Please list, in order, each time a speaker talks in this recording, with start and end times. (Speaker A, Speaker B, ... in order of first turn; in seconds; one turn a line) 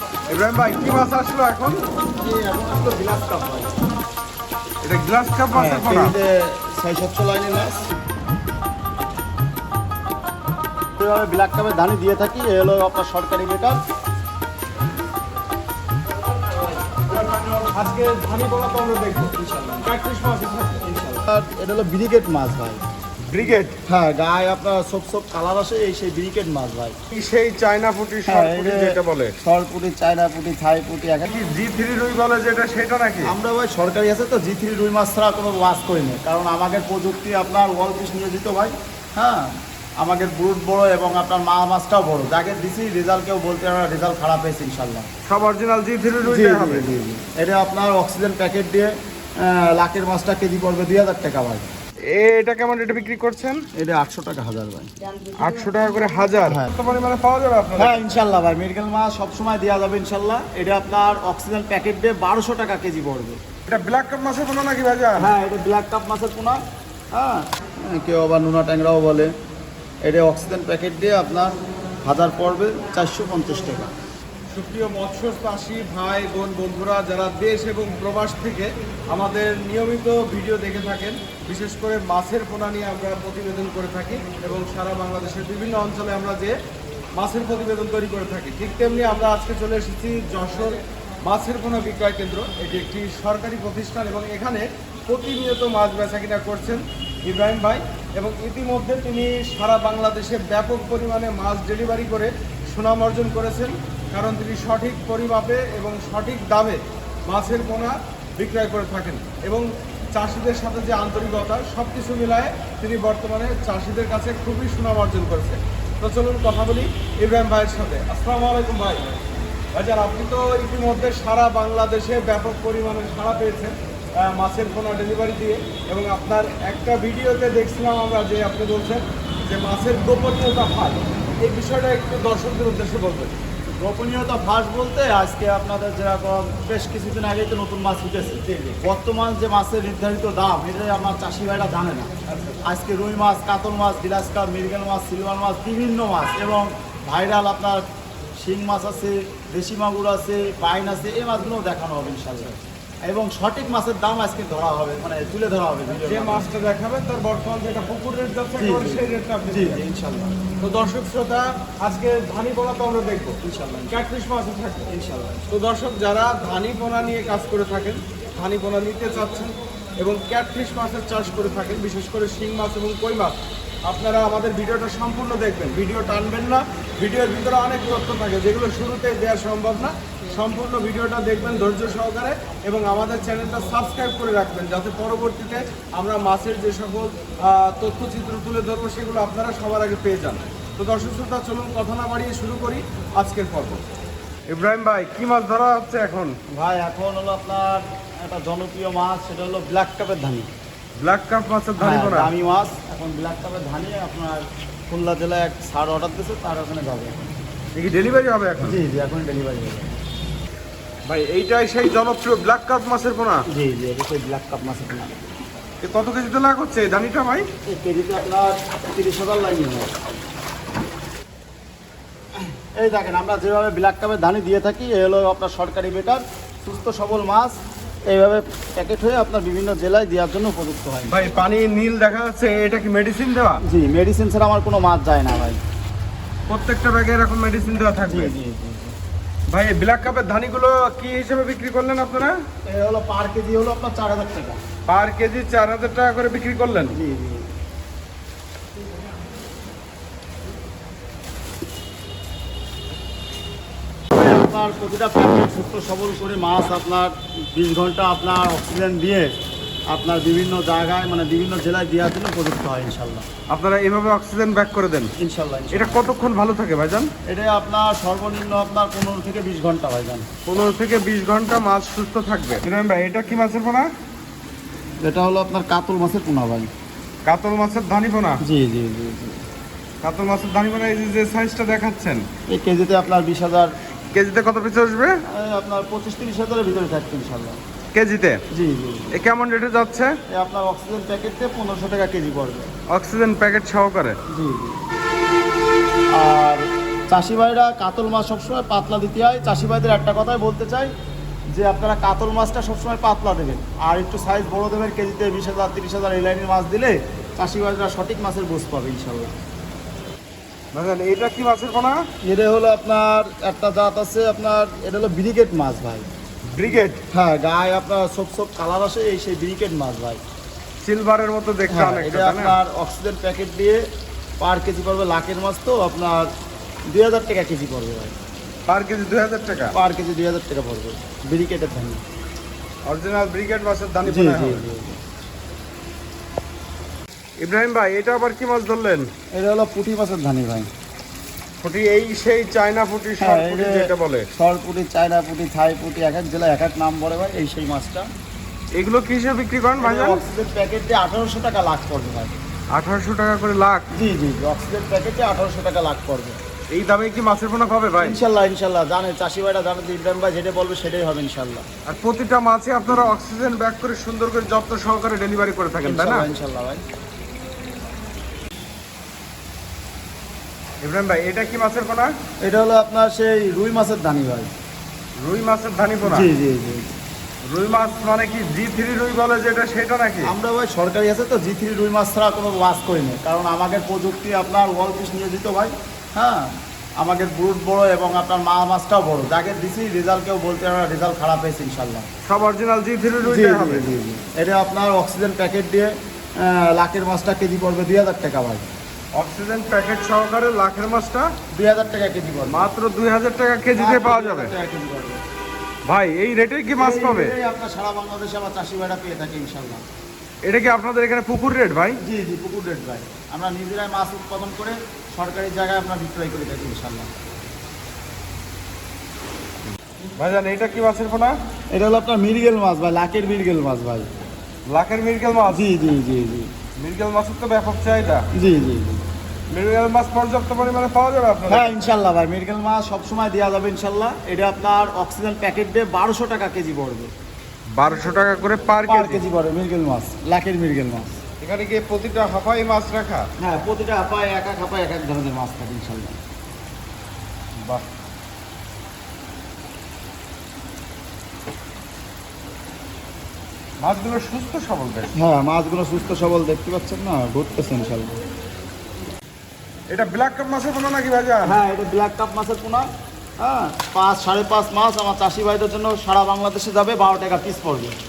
Speaker A: 0.3-1.8
Speaker B: 2.2-3.7
Speaker A: 4.8-6.1
Speaker B: 5.5-7.8
Speaker B: 11.0-13.8
Speaker A: 16.6-21.2
Speaker B: 19.4-19.9
Speaker B: 21.2-22.8
Speaker A: 23.2-23.8
Speaker B: 23.8-26.9
Speaker A: 27.1-29.3
Speaker B: 28.2-31.4
Speaker A: 31.3-33.3
Speaker B: 33.2-45.1
Speaker A: 45.3-47.0
Speaker B: 46.2-51.7
Speaker A: 52.1-53.6
Speaker B: 53.7-54.9
Speaker A: 55.4-58.2
Speaker B: 56.4-56.7
Speaker B: 57.8-63.4
Speaker A: 63.7-65.3
Speaker B: 65.2-66.6
Speaker B: 67.1-69.3
Speaker B: 70.0-71.5
Speaker B: 72.0-73.9
Speaker A: 74.5-86.6
Speaker A: 87.2-119.0
Speaker A: 119.7-133.3
Speaker B: 133.7-142.1
Speaker A: 142.3-142.6
Speaker B: 142.6-156.4
Speaker A: 156.0-159.8
Speaker B: 158.6-160.4
Speaker A: 160.6-163.3
Speaker B: 163.4-164.1
Speaker A: 163.9-164.9
Speaker B: 164.9-165.4
Speaker A: 165.5-173.3
Speaker A: 173.8-193.8
Speaker A: 194.5-196.4
Speaker B: 196.5-200.5
Speaker A: 201.0-202.3
Speaker B: 201.8-207.3
Speaker A: 207.8-208.8
Speaker B: 208.6-210.0
Speaker A: 211.1-213.4
Speaker B: 213.5-215.3
Speaker A: 215.8-217.5
Speaker B: 217.7-220.0
Speaker B: 222.3-231.3
Speaker A: 231.1-233.6
Speaker B: 233.6-235.6
Speaker A: 236.5-238.3
Speaker B: 238.0-238.9
Speaker A: 239.5-242.4
Speaker B: 242.6-244.6
Speaker A: 244.9-247.0
Speaker B: 246.9-247.5
Speaker B: 254.1-259.3
Speaker B: 259.9-263.3
Speaker A: 263.5-265.1
Speaker B: 265.2-266.1
Speaker A: 265.7-267.1
Speaker B: 267.2-270.3
Speaker A: 270.4-273.9
Speaker B: 275.0-276.7
Speaker A: 277.2-278.4
Speaker B: 278.4-279.4
Speaker A: 280.0-282.3
Speaker B: 282.5-283.7
Speaker A: 284.1-285.2
Speaker B: 285.3-287.6
Speaker A: 287.9-288.4
Speaker B: 288.5-289.1
Speaker A: 289.1-290.1
Speaker B: 290.3-292.7
Speaker A: 292.9-294.2
Speaker B: 294.3-294.8
Speaker B: 296.1-300.9
Speaker B: 301.5-309.3
Speaker A: 310.7-312.0
Speaker B: 312.2-316.1
Speaker A: 316.5-317.0
Speaker B: 317.1-320.2
Speaker A: 320.8-322.6
Speaker B: 321.7-323.8
Speaker B: 324.4-326.3
Speaker B: 326.9-328.2
Speaker A: 328.7-329.7
Speaker B: 329.7-332.0
Speaker A: 332.9-334.6
Speaker B: 334.0-335.0
Speaker A: 337.4-339.1
Speaker B: 339.3-340.7
Speaker A: 341.6-344.3
Speaker B: 343.2-348.1
Speaker A: 348.7-350.2
Speaker B: 349.8-352.4
Speaker A: 352.7-353.9
Speaker B: 353.9-356.4
Speaker A: 356.7-358.2
Speaker B: 358.0-361.6
Speaker A: 361.9-366.3
Speaker B: 365.8-366.8
Speaker A: 370.8-372.1
Speaker B: 372.4-374.5
Speaker A: 375.2-376.3
Speaker B: 376.0-376.9
Speaker A: 377.4-380.3
Speaker B: 380.2-392.1
Speaker A: 392.2-393.9
Speaker B: 393.2-398.7
Speaker A: 399.1-401.3
Speaker B: 401.5-402.7
Speaker A: 402.5-404.5
Speaker B: 403.7-405.2
Speaker A: 405.9-407.3
Speaker B: 406.8-409.8
Speaker A: 410.4-412.0
Speaker B: 412.0-417.1
Speaker A: 420.2-421.3
Speaker B: 421.7-424.1
Speaker A: 424.7-425.7
Speaker B: 425.5-426.5
Speaker A: 426.8-428.3
Speaker B: 428.3-429.0
Speaker A: 429.5-431.8
Speaker B: 431.5-437.1
Speaker A: 437.8-439.2
Speaker B: 438.9-441.2
Speaker A: 441.4-443.3
Speaker B: 443.4-446.2
Speaker A: 447.6-447.9
Speaker A: 453.8-455.1
Speaker B: 455.1-458.1
Speaker A: 459.9-461.6
Speaker B: 461.4-462.9
Speaker B: 463.4-468.0